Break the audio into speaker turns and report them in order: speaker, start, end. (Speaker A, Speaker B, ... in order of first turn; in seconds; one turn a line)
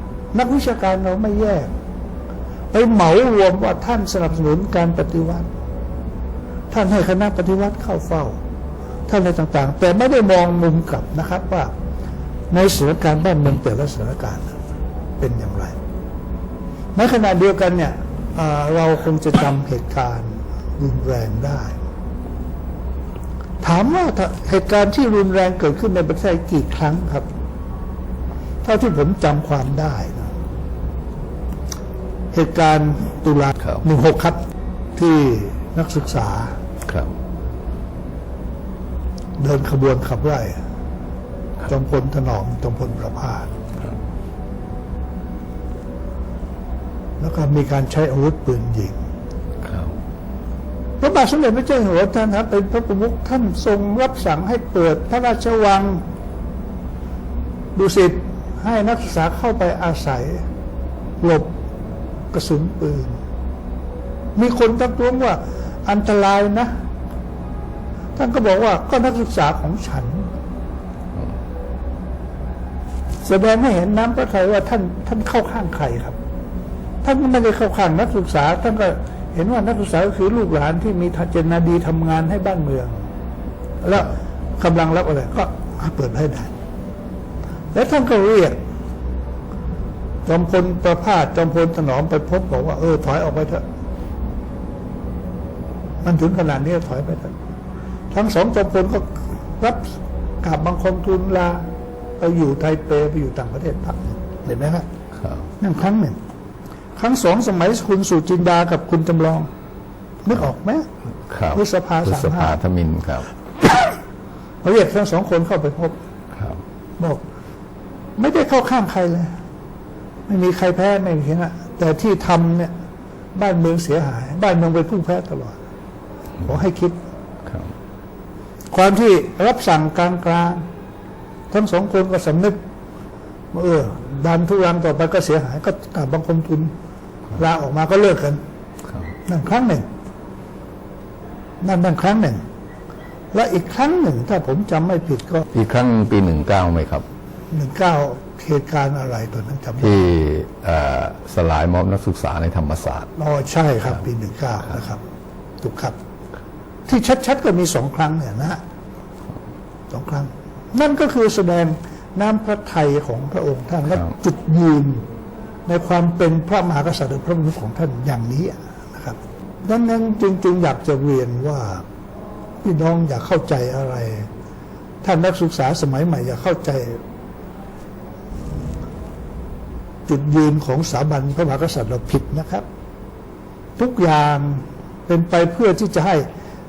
Speaker A: 0.3-1.7
Speaker A: 2.7-5.5
Speaker A: 6.7-8.4
Speaker A: 9.1-11.7
Speaker A: 12.5-14.6
Speaker A: 15.2-15.8
Speaker A: 16.9-21.8
Speaker A: 23.6-27.3
Speaker A: 28.6-30.3
Speaker A: 32.3-34.4
Speaker A: 35.0-36.6
Speaker B: 36.9-37.1
Speaker A: 39.4-40.6
Speaker A: 41.6-43.5
Speaker A: 47.2-48.9
Speaker B: 49.6-49.9
Speaker A: 51.0-56.0
Speaker A: 57.7-60.5
Speaker A: 61.2-61.6
Speaker A: 62.3-63.1
Speaker A: 64.3-66.7
Speaker A: 68.2-70.3
Speaker A: 73.2-76.2
Speaker A: 77.0-83.0
Speaker A: 83.8-86.5
Speaker A: 87.7-88.6
Speaker A: 90.2-93.6
Speaker A: 96.0-97.3
Speaker A: 98.1-101.6
Speaker A: 102.2-104.8
Speaker A: 105.6-106.2
Speaker A: 107.0-109.5
Speaker A: 110.2-110.9
Speaker B: 111.3-113.3
Speaker A: 111.5-112.6
Speaker A: 114.6-116.0
Speaker A: 118.2-119.3
Speaker A: 120.3-122.7
Speaker A: 123.3-125.6
Speaker A: 126.4-127.0
Speaker A: 128.7-130.6
Speaker A: 131.5-132.6
Speaker A: 133.5-136.7
Speaker A: 137.3-138.4
Speaker A: 139.2-139.8
Speaker A: 141.6-142.4
Speaker A: 143.3-145.5
Speaker B: 145.5-147.0
Speaker A: 147.5-150.0
Speaker B: 149.8-153.1
Speaker A: 153.2-155.0
Speaker A: 155.6-155.9
Speaker A: 156.9-158.6
Speaker A: 159.9-165.1
Speaker A: 165.7-171.8
Speaker A: 172.6-174.3
Speaker A: 175.0-177.0
Speaker A: 180.1-182.7
Speaker A: 183.8-186.2